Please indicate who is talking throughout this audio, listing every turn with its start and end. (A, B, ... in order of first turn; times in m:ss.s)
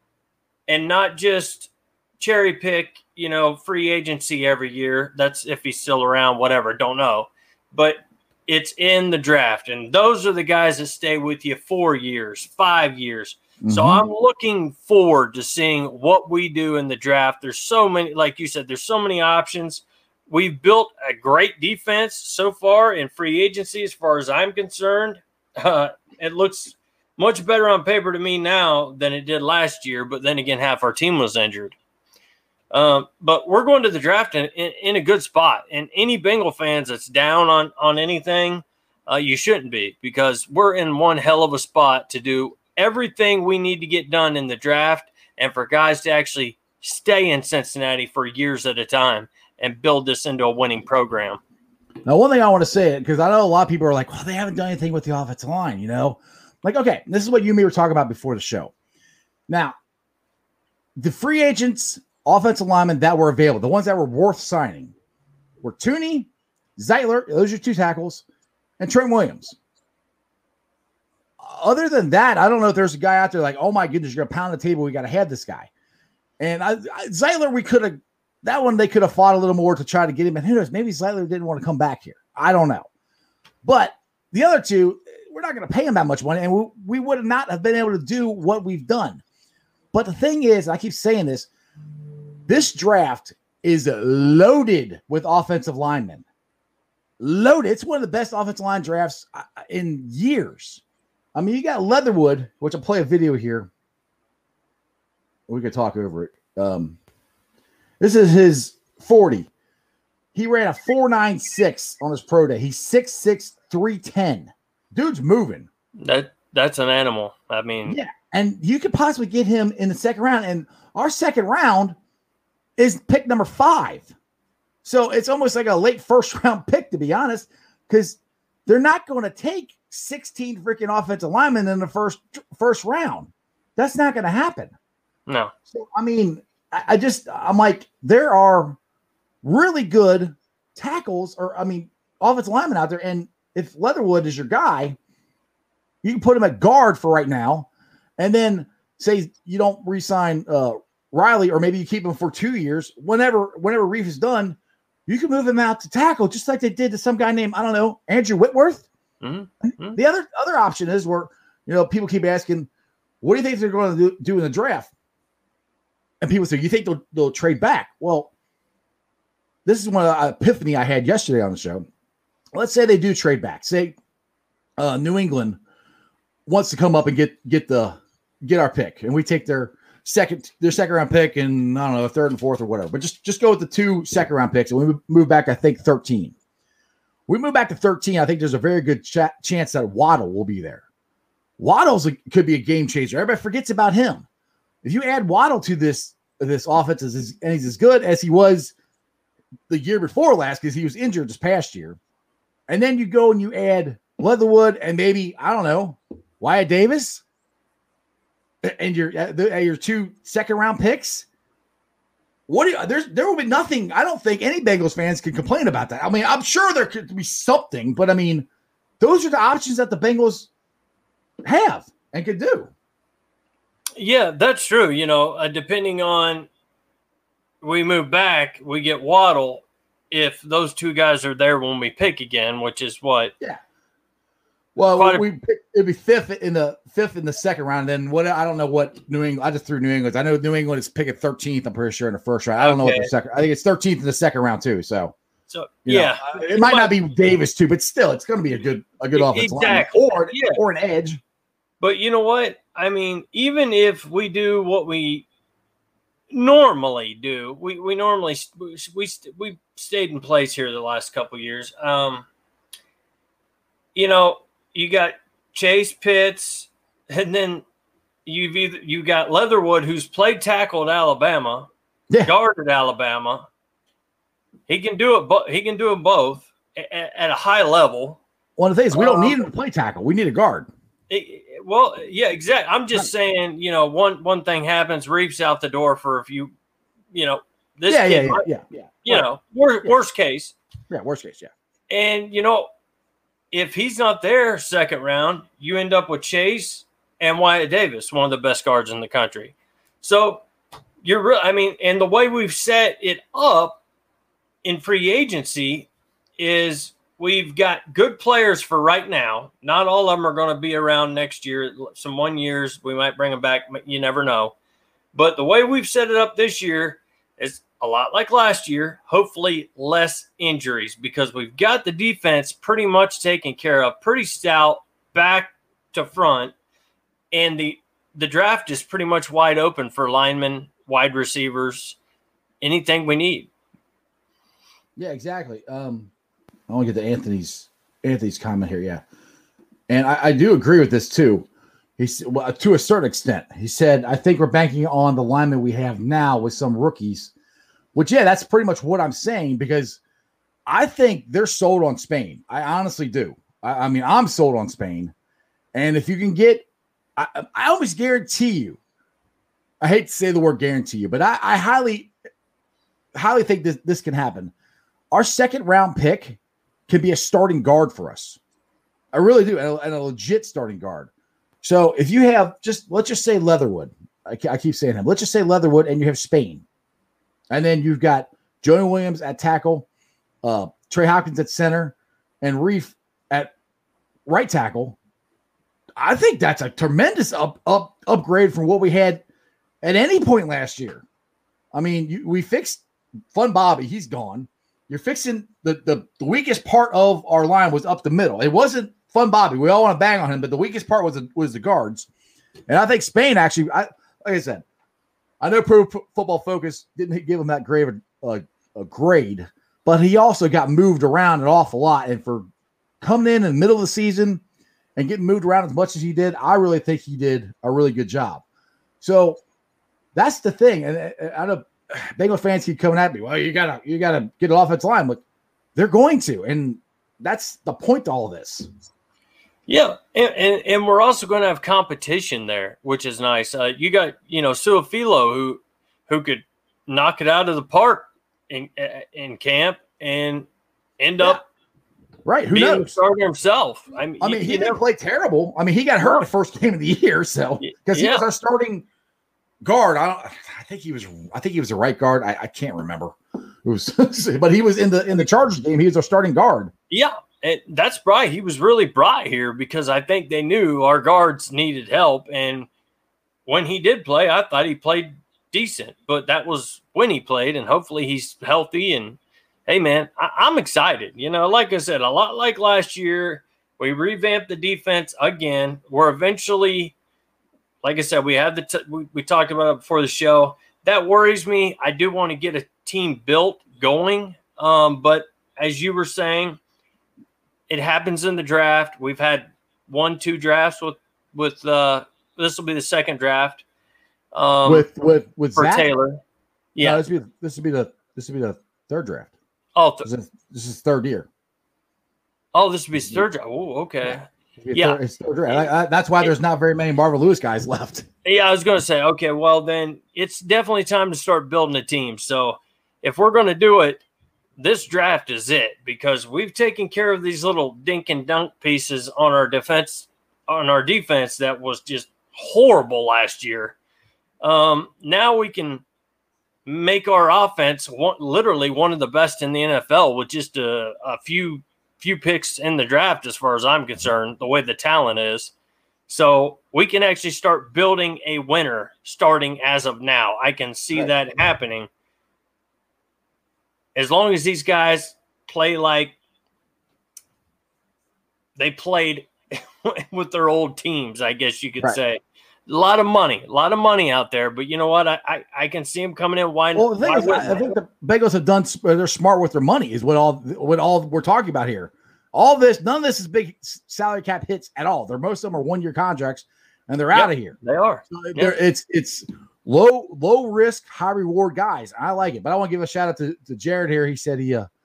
0:00.7-0:31.8 A
0:13.6-0:14.0 B
0:32.7-0:51.4 A
0:52.1-0:58.7 B
0:59.5-0:59.8 B
1:01.0-1:04.9 B
1:05.6-1:08.2 B
1:08.8-1:09.6 B
1:11.4-1:15.7 B
1:16.4-1:22.9 B
1:23.6-1:29.2 B
1:29.9-1:31.5 B
1:32.5-1:36.2 B
1:37.2-1:40.8 B
1:41.4-1:43.7 B
1:45.5-1:47.0 B
1:48.0-1:49.5 B
1:50.4-1:55.7 B
1:56.0-1:58.0 A
1:57.9-2:02.0 B
2:02.8-2:04.1 B
2:04.8-2:14.7 B
2:15.3-2:15.5 A
2:15.7-2:18.8 B
2:19.4-2:25.0 B
2:26.0-2:38.8 B
2:39.2-2:40.0 A
2:39.9-2:42.7 B
2:43.2-2:44.9 B
2:46.2-2:48.3 B
2:49.6-2:51.9 B
2:52.5-2:54.0 B
2:54.8-2:55.6 B
2:56.5-3:06.4 B
3:07.3-3:10.8 B
3:11.6-3:14.2 B
3:14.8-3:18.7 B
3:19.7-3:22.0 B
3:22.7-3:27.2 B
3:28.6-3:31.3 B
3:32.5-3:38.5 B
3:39.0-3:40.5 B
3:41.4-3:42.7 B
3:44.0-3:46.5 A
3:47.6-3:53.3 A
3:54.8-4:05.2 B
3:55.0-3:55.2 A
4:02.6-4:03.1 A
4:05.5-4:07.0 A
4:05.8-4:11.2 B
4:09.1-4:10.6 A
4:11.8-4:15.3 A
4:16.3-4:22.3 A
4:24.0-4:27.6 A
4:28.3-4:31.7 A
4:32.2-4:33.4 A
4:34.7-4:38.2 A
4:38.6-4:40.7 B
4:38.9-4:39.4 A
4:41.1-4:46.5 A
4:47.1-4:48.5 A
4:47.9-4:49.3 B
4:49.0-4:50.6 A
4:50.9-4:51.5 B
4:51.9-4:52.7 A
4:53.5-5:00.4 A
5:01.0-5:03.8 A
5:04.6-5:14.5 A
5:15.1-5:26.5 A
5:27.3-5:32.0 A
5:32.6-5:33.5 A
5:35.0-5:36.1 B
5:36.7-5:39.0 B
5:39.9-5:41.5 B
5:42.0-5:47.3 B
5:48.0-5:50.0 B
5:50.7-5:55.1 B
5:55.7-5:56.7 B
5:57.2-5:58.8 B
5:59.8-6:02.1 B
6:03.2-6:04.5 B
6:05.1-6:08.4 B
6:09.1-6:11.1 B
6:11.6-6:16.6 B
6:17.5-6:19.9 B
6:20.4-6:23.5 B
6:24.3-6:25.0 B
6:26.0-6:29.2 B
6:29.8-6:31.0 B
6:31.7-6:42.1 B
6:42.7-6:44.6 B
6:45.4-6:52.5 B
6:53.0-6:54.4 B
6:55.0-6:58.4 B
6:59.0-6:59.4 B
7:00.2-7:05.2 B
7:05.8-7:08.7 B
7:09.7-7:20.5 A
7:21.0-7:21.4 A
7:22.2-7:22.9 B
7:22.5-7:24.8 A
7:24.2-7:28.8 B
7:27.6-7:28.2 A
7:29.6-7:36.7 B
7:36.9-7:42.7 A
7:43.5-7:56.9 A
7:57.8-8:06.6 A
8:07.7-8:13.6 A
8:14.3-8:14.9 A
8:14.6-8:15.9 B
8:15.6-8:16.2 A
8:16.8-8:17.0 A
8:16.8-8:19.3 B
8:19.8-8:20.1 A
8:20.0-8:21.3 B
8:22.5-8:25.0 A
8:24.0-8:28.1 B
8:28.2-8:34.0 A
8:34.6-8:43.8 A
8:44.4-8:45.8 A
8:46.7-8:55.5 A
8:56.1-9:01.9 A
9:04.0-9:06.2 A
9:08.6-9:17.8 A
9:16.8-9:27.6 B
9:27.1-9:28.6 A
9:28.1-9:34.7 B